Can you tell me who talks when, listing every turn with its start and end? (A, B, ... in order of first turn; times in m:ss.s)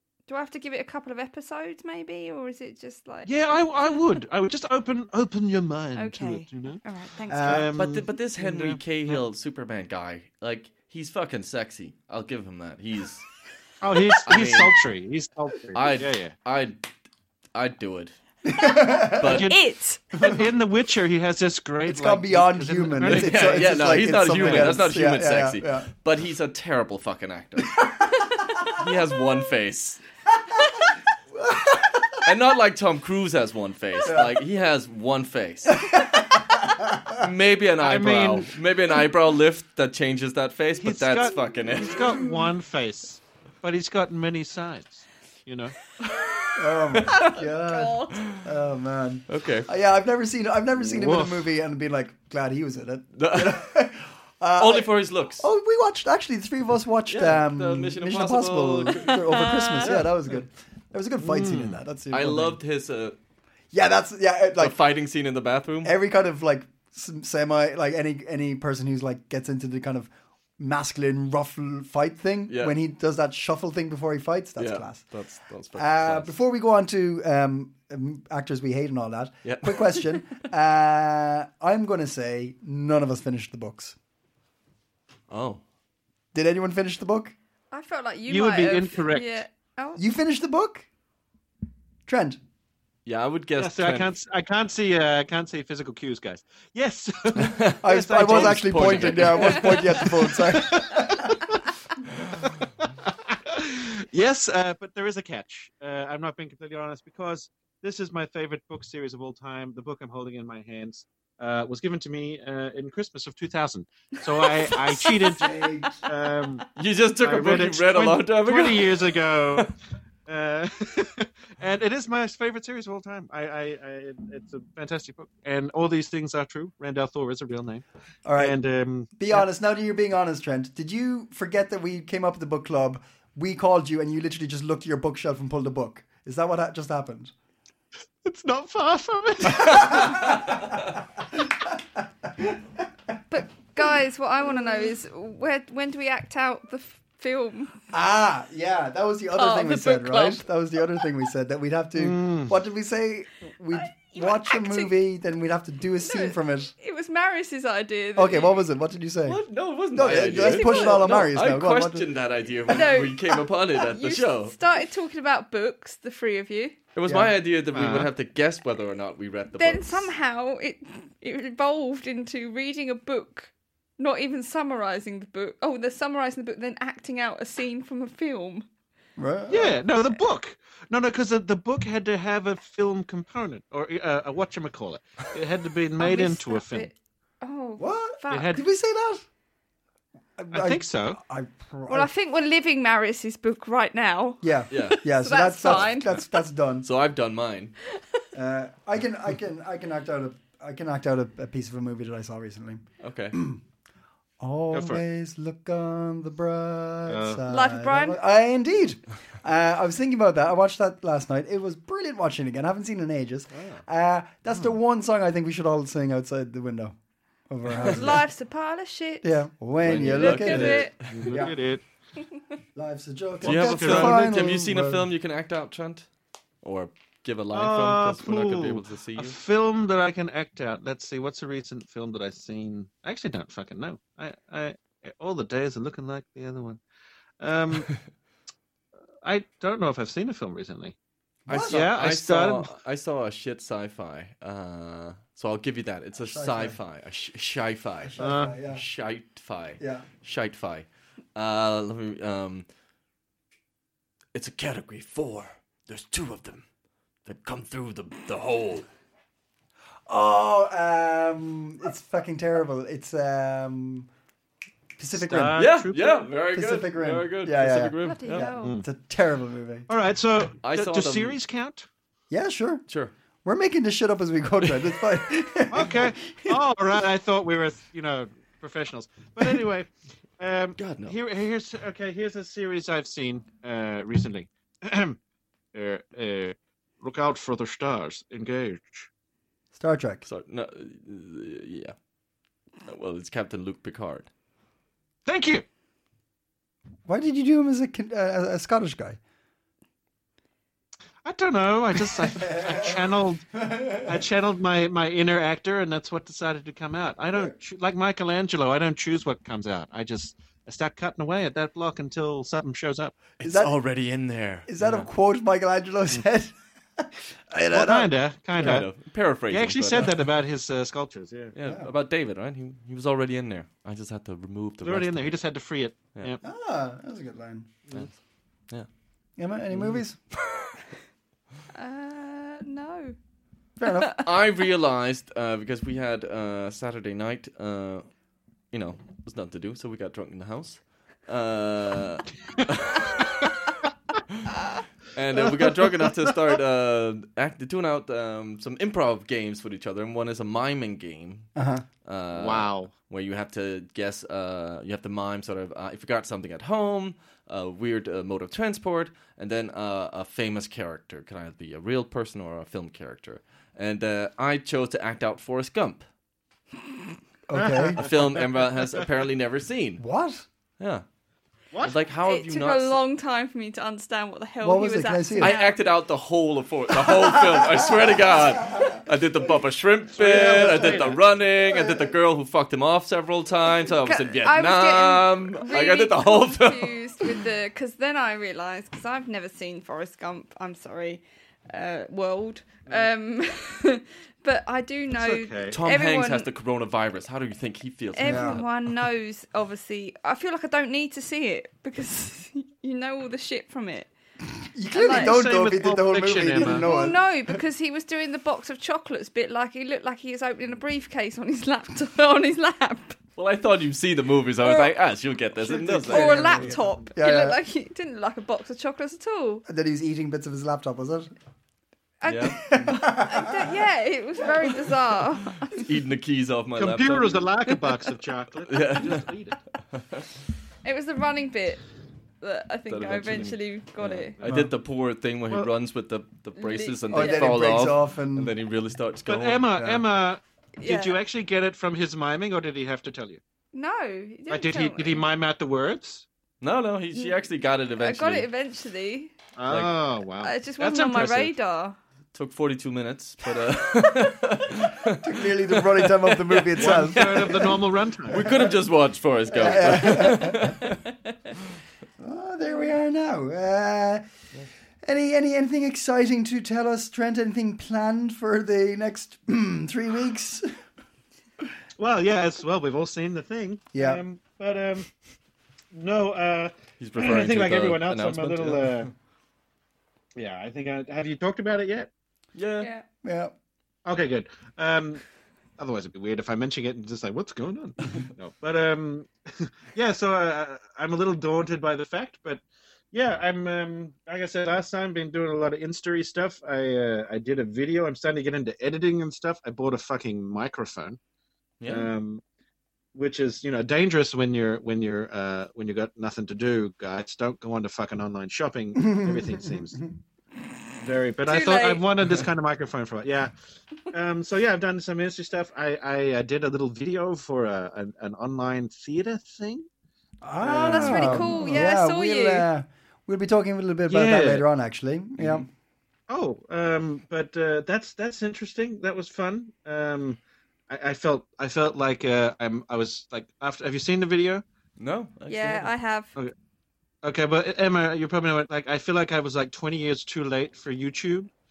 0:00.3-0:04.0 A
0:03.2-0:06.8 B
0:06.0-0:07.7 A
0:07.3-0:07.7 C
0:07.4-0:09.2 B
0:07.8-0:13.3 D
0:13.8-0:16.4 B
0:14.2-0:14.8 D
0:15.8-0:16.9 D
0:17.5-0:18.1 D
0:18.4-0:19.4 C
0:19.2-0:19.5 D
0:19.2-0:19.6 B
0:19.3-0:20.0 A
0:20.1-0:24.7 B
0:21.9-0:25.9 C
0:23.0-0:30.0 D
0:31.3-0:32.2 C
0:32.2-0:36.0 D
0:34.0-0:34.4 C
0:35.8-0:37.3 C
0:37.1-0:42.1 D
0:37.8-0:38.6 B
0:40.8-0:45.8 B
0:46.6-1:02.6 C
0:47.1-0:48.2 A
0:48.2-0:48.4 D
0:49.3-0:49.7 D
0:50.9-0:51.4 B
0:53.2-0:53.7 D
0:54.6-0:55.5 D
0:57.1-1:00.1 D
0:59.4-0:59.7 A
1:01.2-1:01.8 B
1:02.1-1:03.2 D
1:03.7-1:04.8 C
1:04.6-1:06.0 D
1:05.8-1:15.2 C
1:12.5-1:12.8 D
1:14.6-1:16.3 D
1:15.8-1:24.0 C
1:19.4-1:20.0 D
1:25.3-1:25.6 D
1:26.3-1:27.4 C
1:27.7-1:30.0 A
1:28.3-1:29.4 B
1:30.0-1:30.9 C
1:32.1-1:32.4 C
1:33.1-1:34.1 D
1:33.6-1:41.4 B
1:37.4-1:40.3 D
1:37.8-1:41.4 C
1:43.1-1:56.7 B
1:55.0-1:55.9 A
1:55.4-1:56.0 C
1:56.8-1:59.7 D
1:57.2-1:59.7 B
2:00.3-2:07.8 B
2:08.3-2:08.6 C
2:08.4-2:09.4 B
2:09.2-2:17.3 C
2:18.2-2:20.1 B
2:19.6-2:22.6 C
2:23.3-2:27.8 A
2:27.9-2:36.7 C
2:29.4-2:30.5 A
2:32.0-2:32.6 B
2:33.7-2:35.0 A
2:36.0-2:38.6 A
2:38.2-2:39.4 C
2:39.3-2:44.6 D
2:39.9-2:42.2 C
2:40.1-2:41.2 A
2:42.7-2:46.8 A
2:47.0-2:50.1 D
2:47.1-2:47.3 C
2:47.7-2:48.1 B
2:49.6-2:58.7 A
2:59.2-2:59.8 C
2:59.5-3:06.9 B
3:06.0-3:08.6 A
3:07.8-3:09.2 C
3:08.3-3:08.6 B
3:10.4-3:12.1 C
3:10.5-3:11.2 B
3:11.9-3:16.2 A
3:14.4-3:16.9 C
3:14.7-3:15.0 D
3:16.8-3:17.8 D
3:18.3-3:23.6 C
3:23.0-3:23.4 D
3:24.4-3:37.0 C
3:24.7-3:25.0 B
3:27.1-3:27.4 B
3:27.5-3:28.2 A
3:33.5-3:33.8 B
3:37.5-3:38.3 C
3:37.8-3:39.4 A
3:39.2-3:41.6 C
3:39.8-3:41.4 D
3:40.0-3:40.9 A
3:40.6-3:41.8 B
3:42.8-3:45.1 C
3:43.4-3:44.5 B
3:43.4-3:46.1 D
3:46.6-3:49.4 D
3:47.5-3:56.8 B
3:57.4-3:57.9 B
3:59.2-4:01.0 B
4:01.5-4:01.8 C
4:01.5-4:12.7 D
4:01.6-4:02.7 B
4:06.2-4:06.8 C
4:08.1-4:08.8 C
4:08.2-4:08.6 B
4:09.8-4:10.1 C
4:14.3-4:16.6 D
4:17.2-4:18.9 D
4:20.1-4:24.1 C
4:25.0-4:25.6 C
4:25.1-4:26.3 B
4:25.5-4:28.5 D
4:26.5-4:29.9 C
4:28.0-4:28.8 A
4:28.6-4:28.9 B
4:29.9-4:31.9 B
4:30.6-4:31.4 D
4:32.3-4:32.9 C
4:32.9-4:33.1 D
4:33.4-4:36.6 C
4:35.7-4:45.2 B
4:40.8-4:41.2 D
4:45.7-4:49.1 B
4:49.7-4:50.2 C
4:50.2-4:52.0 D
4:52.8-4:54.3 D
4:55.3-4:55.6 B
4:57.1-4:59.2 C
5:01.2-5:13.4 B
5:02.5-5:03.0 C
5:03.6-5:04.2 C
5:13.4-5:13.8 C
5:13.4-5:15.1 D
5:14.7-5:18.9 C
5:17.7-5:21.6 B
5:18.6-5:20.1 D
5:21.6-5:25.4 D
5:21.6-5:21.9 C
5:24.8-5:26.4 B
5:26.4-5:27.9 C
5:29.4-5:30.2 C
5:31.7-5:33.2 A
5:33.8-5:34.1 C
5:34.1-5:38.1 D
5:38.7-5:43.2 D
5:45.1-5:51.5 D
5:51.6-5:51.8 C
5:52.0-6:06.1 D
5:52.3-5:52.9 B
6:07.5-6:08.0 C
6:07.6-6:09.0 B
6:08.0-6:10.0 D
6:10.0-6:10.5 C
6:10.8-6:11.0 D
6:11.7-6:12.0 B
6:11.8-6:13.0 D
6:12.2-6:15.8 A
6:14.6-6:15.5 C
6:15.4-6:27.3 D
6:17.1-6:19.0 C
6:20.1-6:21.3 B
6:20.2-6:21.1 C
6:21.7-6:22.1 C
6:24.0-6:36.5 A
6:35.1-6:35.8 B
6:35.7-6:38.7 D
6:38.1-6:44.1 A
6:38.2-6:38.6 C
6:44.6-6:47.6 C
6:44.9-6:45.4 A
6:45.1-6:46.9 B
6:46.6-6:53.2 A
6:53.4-6:56.8 D
6:54.6-6:54.9 A
6:55.6-6:57.6 C
6:56.1-6:59.6 A
6:59.7-7:01.3 C
7:02.2-7:05.8 A
7:02.3-7:02.8 D
7:02.6-7:03.8 C
7:05.7-7:07.5 D
7:06.8-7:09.6 B
7:08.7-7:09.2 D
7:09.9-7:10.2 D
7:10.8-7:11.8 A
7:12.4-7:14.4 A
7:12.9-7:19.7 D
7:16.6-7:17.6 A
7:17.1-7:18.5 C
7:19.3-7:23.4 B
7:19.8-7:20.0 C
7:20.8-7:21.2 A
7:23.7-7:25.2 A
7:24.5-7:26.3 B
7:26.6-7:28.5 D
7:27.1-7:27.4 A
7:28.0-7:29.3 A
7:29.6-7:31.5 B
7:30.4-7:32.0 A
7:32.3-7:37.8 D
7:35.1-7:38.7 C
7:36.7-7:38.6 B
7:38.3-7:41.0 D
7:39.5-7:40.8 C
7:42.2-7:44.2 C
7:45.0-7:50.8 C
7:52.0-7:55.1 B
7:53.9-7:54.2 C
7:55.9-7:59.1 B
7:57.0-7:59.1 D
8:00.4-8:02.1 B
8:02.6-8:02.9 D
8:02.8-8:03.0 A
8:03.2-8:03.5 C
8:04.0-8:05.2 B
8:05.8-8:21.2 B
8:21.8-8:22.1 D
8:21.8-8:22.4 B
8:23.1-8:30.0 B
8:29.0-8:30.0 C
8:31.0-8:33.5 B
8:31.5-8:32.0 A
8:34.1-8:39.9 B
8:40.4-8:45.7 C
8:40.6-8:41.8 B
8:40.7-8:42.7 A
8:44.1-8:44.7 B
8:46.3-8:54.6 B
8:55.0-8:55.9 D
8:55.5-8:56.3 A
8:57.2-9:01.5 B